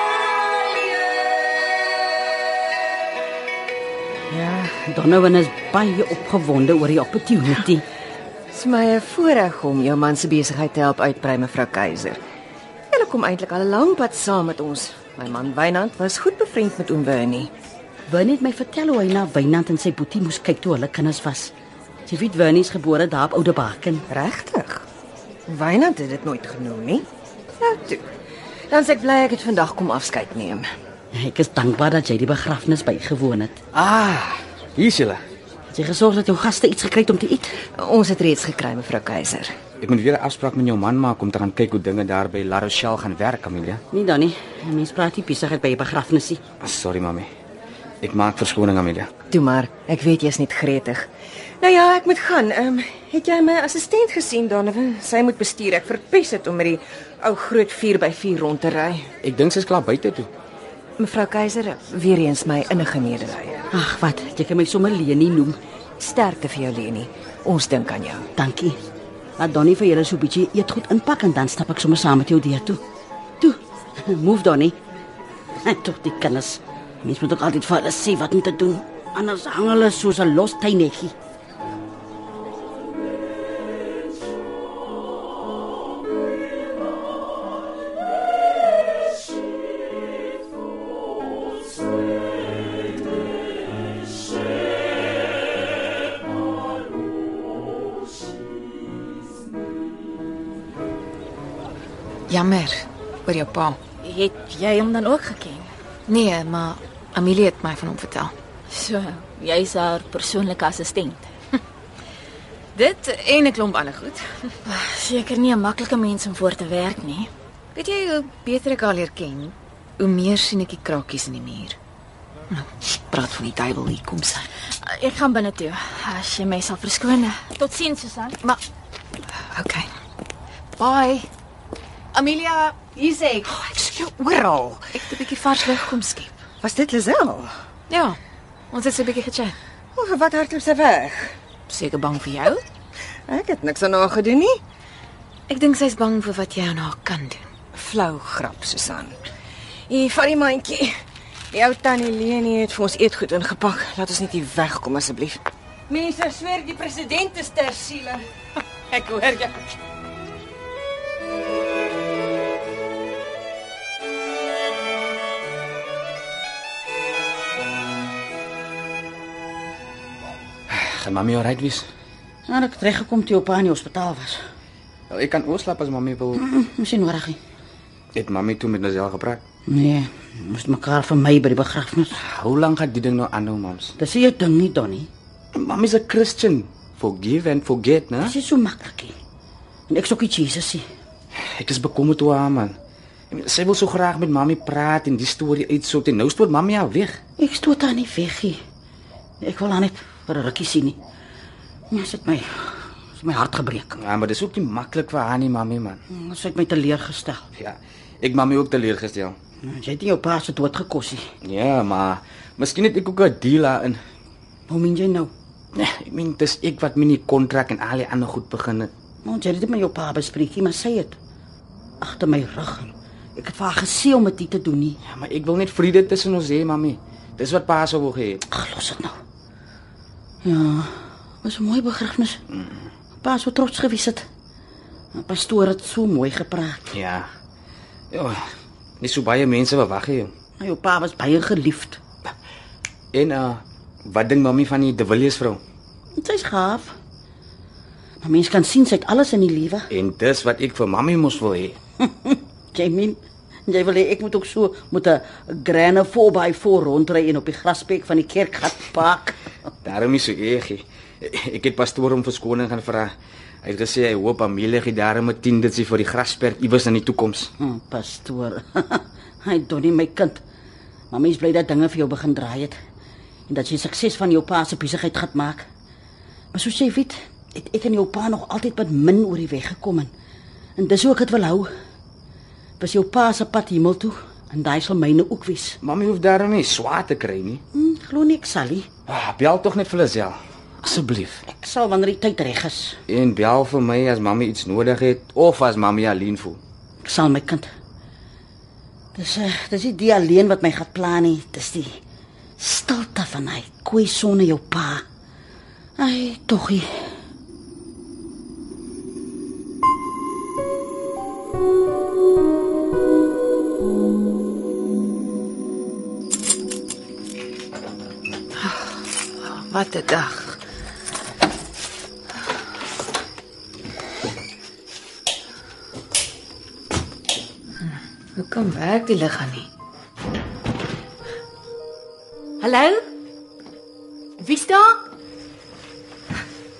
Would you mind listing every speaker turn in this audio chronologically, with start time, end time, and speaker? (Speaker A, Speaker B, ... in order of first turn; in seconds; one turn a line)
Speaker A: 4.3-7.8
Speaker B: 8.5-12.2
Speaker B: 12.9-17.5
Speaker A: 18.1-21.5
Speaker A: 22.1-24.1
Speaker B: 24.1-24.9
Speaker B: 25.5-27.1
Speaker B: 27.6-28.1
Speaker B: 28.7-30.7
Speaker A: 31.1-33.6
Speaker C: 33.7-35.2
Speaker A: 35.7-37.5
Speaker B: 37.8-39.5
Speaker C: 39.8-43.8
Speaker A: 43.9-46.4
Speaker C: 46.6-47.3
Speaker C: 48.0-49.1
Speaker B: 49.3-51.1
Speaker B: 51.6-59.1
Speaker C: 59.2-60.3
Speaker B: 61.0-63.6
Speaker A: 63.7-65.6
Speaker B: 66.0-68.3
Speaker A: 68.4-68.8
Speaker A: 69.4-72.8
Speaker A: 73.4-74.8
Speaker A: 75.6-81.2
Speaker D: 102.3-103.8
Speaker E: 104.0-105.7
Speaker D: 106.1-108.3
Speaker E: 108.7-111.3
Speaker D: 112.8-114.5
Speaker E: 114.7-117.3
Speaker D: 117.7-121.8
Speaker D: 122.5-124.5
Speaker E: 124.8-128.4
Speaker D: 129.5-129.9
Speaker D: 130.8-131.3
Speaker D: 132.1-133.3
Speaker B: 133.5-134.9
Speaker D: 134.9-136.3
Speaker B: 136.6-137.5
Speaker D: 137.9-138.2
Speaker D: 138.7-139.6
Speaker B: 140.0-141.3
Speaker D: 141.7-142.6
Speaker B: 143.3-144.6
Speaker D: 145.5-147.5
Speaker B: 147.8-149.2
Speaker B: 149.9-150.9
Speaker B: 151.5-158.2
Speaker B: 158.9-159.6
Speaker C: 170.7-171.9
Speaker A: 172.5-174.4
Speaker C: 175.1-176.4
Speaker A: 176.3-177.4
Speaker C: 178.2-179.4
Speaker A: 179.7-182.2
Speaker C: 182.2-183.9
Speaker A: 184.0-185.1
Speaker C: 185.5-188.3
Speaker A: 188.2-189.1
Speaker A: 189.9-190.8
Speaker C: 191.6-192.8
Speaker C: 193.3-197.2
Speaker A: 197.4-198.6
Speaker A: 199.4-201.0
Speaker A: 201.9-204.0
Speaker C: 204.0-206.0
Speaker A: 206.1-207.4
Speaker C: 207.6-209.4
Speaker A: 209.6-211.2
Speaker C: 211.4-214.0
Speaker A: 214.7-215.3
Speaker C: 215.8-218.9
Speaker A: 219.2-221.2
Speaker A: 222.0-225.0
Speaker C: 225.0-228.4
Speaker A: 228.5-229.2
Speaker A: 230.4-232.4
Speaker A: 233.2-234.2
Speaker A: 235.2-236.9
Speaker C: 236.9-237.3
Speaker C: 238.1-238.4
Speaker C: 239.0-240.3
Speaker A: 240.6-242.0
Speaker C: 243.1-245.6
Speaker A: 246.2-246.9
Speaker A: 248.2-249.9
Speaker C: 249.9-251.8
Speaker A: 252.0-259.4
Speaker C: 259.9-263.1
Speaker C: 263.6-267.5
Speaker A: 267.6-270.4
Speaker A: 271.1-272.8
Speaker A: 273.5-275.7
Speaker A: 276.5-280.1
Speaker A: 280.8-281.7
Speaker A: 282.8-285.8
Speaker C: 285.8-287.6
Speaker A: 287.7-288.9
Speaker C: 289.1-291.4
Speaker A: 291.5-293.0
Speaker C: 293.1-296.6
Speaker A: 297.1-297.7
Speaker A: 299.1-301.9
Speaker A: 302.6-305.0
Speaker A: 306.0-307.1
Speaker D: 318.6-320.6
Speaker D: 327.8-329.7
Speaker E: 332.6-333.0
Speaker E: 334.4-335.0